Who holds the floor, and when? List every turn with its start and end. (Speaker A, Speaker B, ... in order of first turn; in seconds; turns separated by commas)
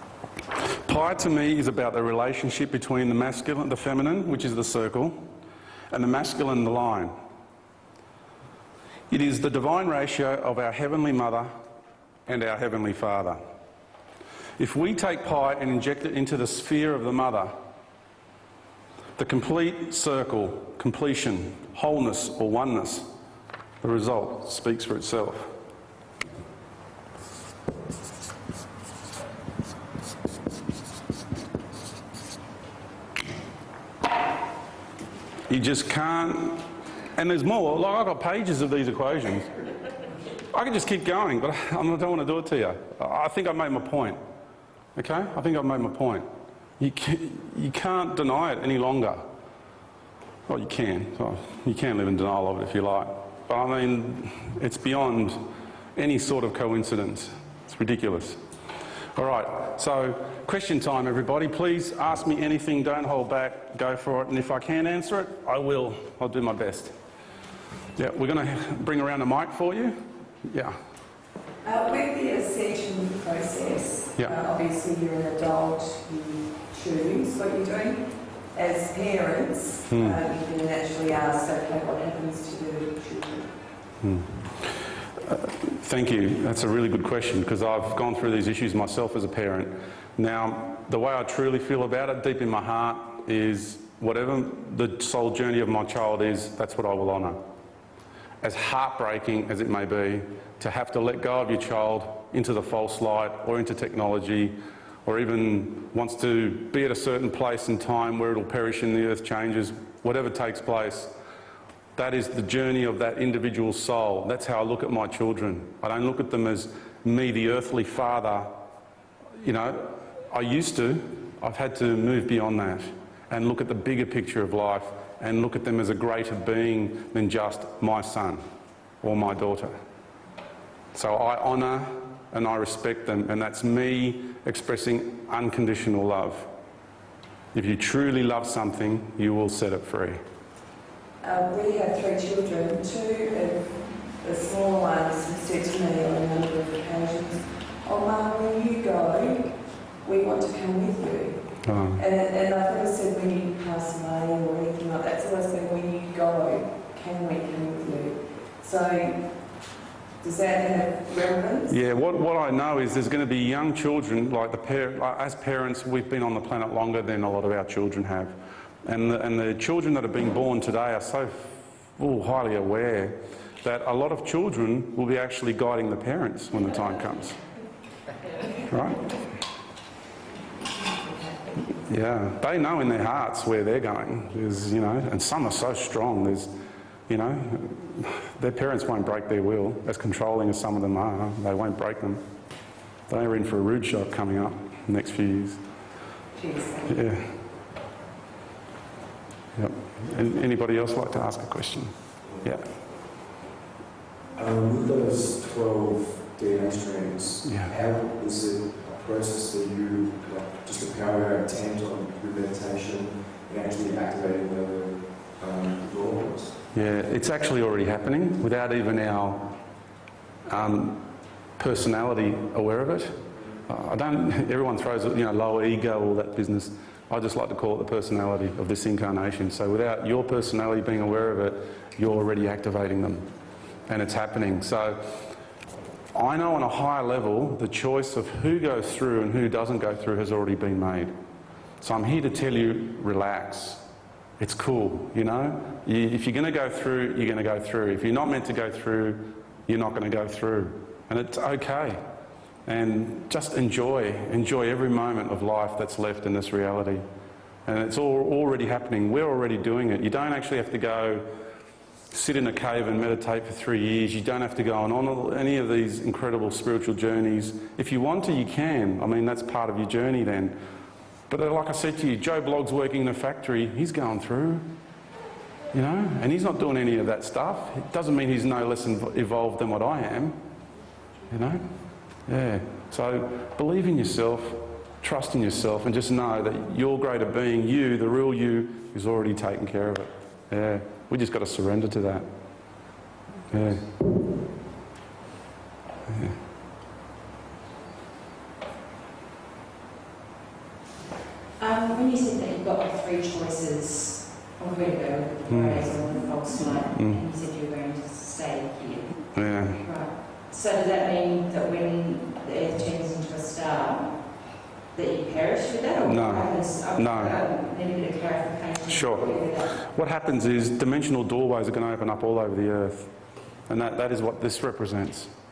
Speaker A: 0.7-5.3, Speaker A: 5.9-7.2, Speaker A: 9.1-11.5, Speaker A: 12.3-13.4, Speaker A: 14.6-17.6, Speaker A: 19.2-23.1, Speaker A: 23.8-25.6, Speaker A: 35.5-39.5, Speaker A: 40.5-44.2, Speaker A: 45.0-49.3, Speaker A: 50.5-58.4, Speaker A: 59.1-67.0, Speaker A: 67.9-70.8, Speaker B: 71.6-83.5, Speaker A: 79.9-80.2, Speaker A: 84.0-97.4, Speaker A: 98.4-111.1, Speaker A: 112.0-118.5, Speaker A: 119.4-128.4, Speaker A: 129.0-129.8, Speaker A: 130.9-136.5, Speaker A: 137.5-140.2, Speaker B: 141.2-159.6, Speaker A: 151.6-152.0, Speaker B: 160.2-161.7, Speaker A: 161.7-177.4, Speaker A: 178.7-179.2, Speaker C: 180.8-181.6, Speaker A: 181.8-186.5, Speaker A: 187.1-192.2, Speaker A: 193.1-195.6, Speaker C: 196.3-197.0, Speaker A: 196.8-197.4, Speaker A: 199.5-202.7, Speaker D: 202.3-202.8, Speaker D: 204.3-216.6, Speaker A: 207.4-207.7, Speaker A: 216.7-219.6, Speaker A: 220.5-233.3, Speaker A: 233.9-235.3, Speaker A: 236.1-241.1, Speaker A: 241.8-243.8, Speaker A: 244.4-252.0, Speaker A: 252.7-257.0, Speaker A: 257.6-261.3, Speaker A: 262.1-270.6, Speaker A: 271.3-274.7, Speaker A: 275.7-280.4, Speaker A: 281.3-292.3, Speaker A: 293.5-293.9, Speaker A: 296.1-296.4, Speaker C: 301.6-319.8, Speaker A: 305.5-306.1, Speaker A: 306.9-307.2, Speaker A: 309.3-309.9, Speaker A: 316.0-317.4, Speaker A: 318.9-323.1, Speaker A: 323.7-325.3